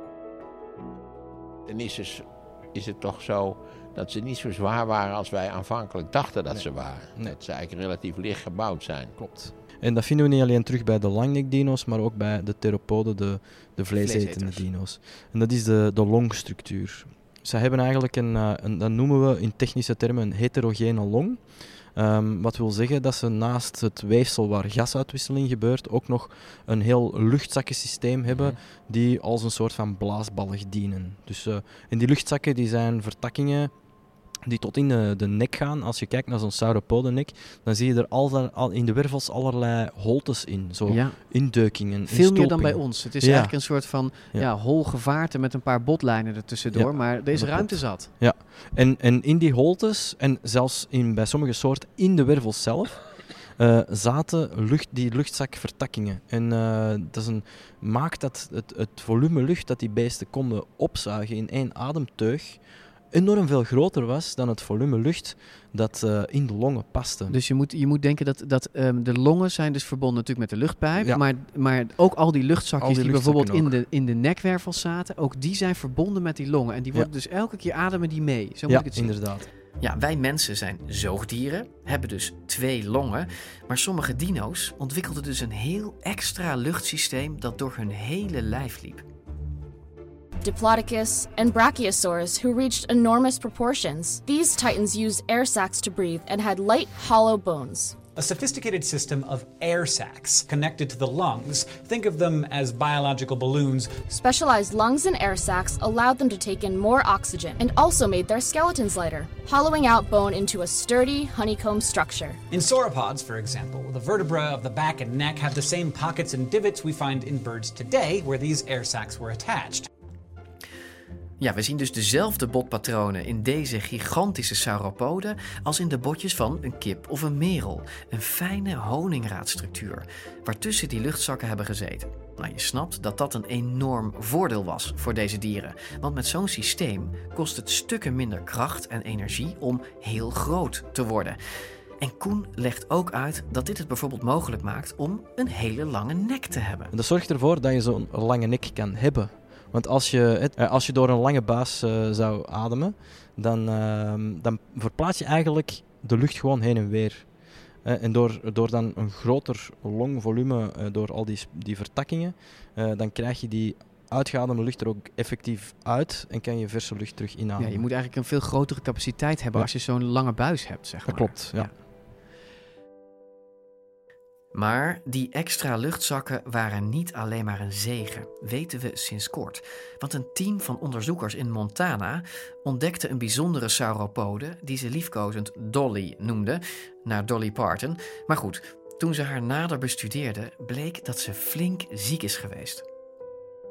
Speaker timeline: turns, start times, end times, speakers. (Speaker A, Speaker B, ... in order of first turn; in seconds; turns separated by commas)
Speaker A: 1.7-9.2, Speaker B: 6.5-7.3, Speaker B: 9.2-43.7, Speaker C: 13.9-14.7, Speaker A: 28.3-28.6, Speaker C: 40.9-48.1, Speaker B: 46.7-67.3, Speaker C: 67.3-89.0, Speaker B: 71.0-71.2, Speaker B: 72.8-73.8, Speaker B: 78.7-79.5, Speaker D: 90.4-98.0, Speaker E: 98.2-104.0, Speaker D: 104.1-112.4, Speaker E: 112.5-119.9, Speaker C: 121.4-141.4, Speaker C: 142.0-146.9, Speaker B: 146.9-167.8, Speaker C: 167.6-171.7, Speaker B: 171.1-171.7, Speaker C: 174.5-192.8